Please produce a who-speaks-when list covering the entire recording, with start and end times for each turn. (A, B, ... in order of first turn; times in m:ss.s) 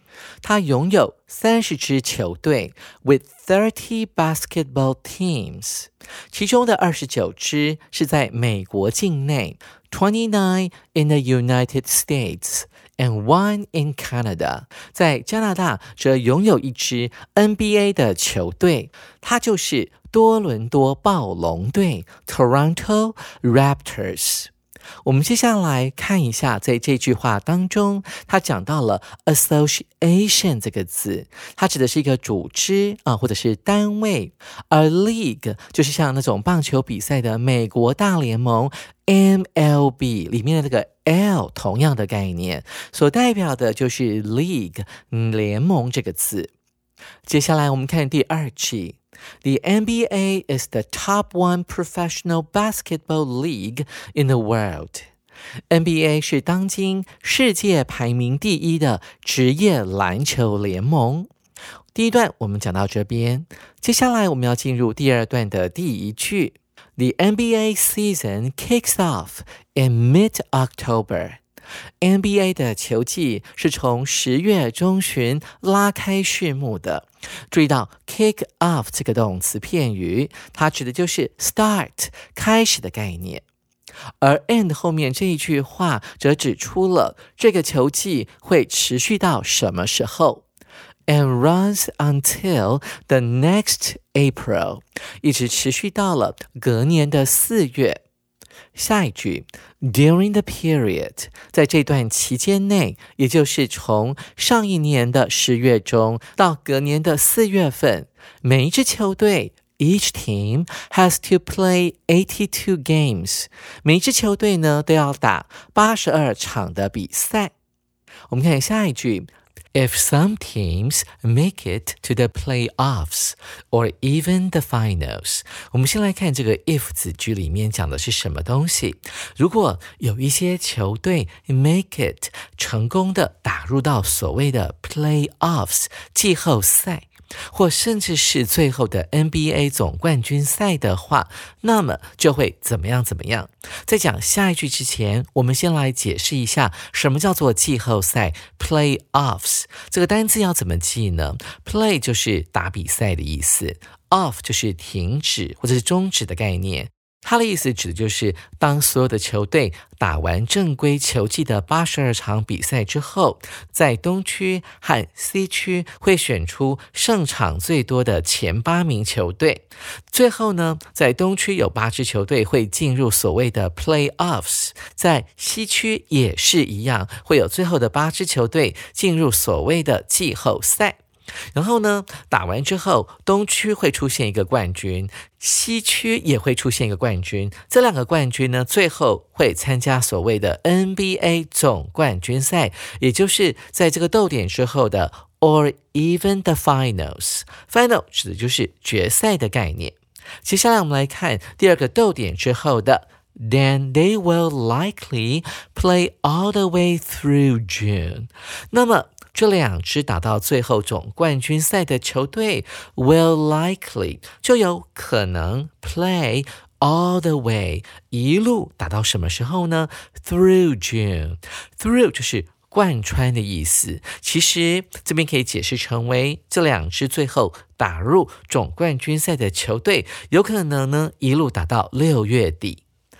0:00.4-0:24.5 A
0:25.0-0:46.5 A
0:47.2-0:55.1 A
0:55.7-1:01.3 A
1:01.9-1:11.4 A
1:12.0-1:23.4 A
1:24.2-1:30.4 A
1:31.1-1:38.0 A
1:38.7-1:57.5 A
1:58.3-3:01.0 A
3:01.5-3:52.8 A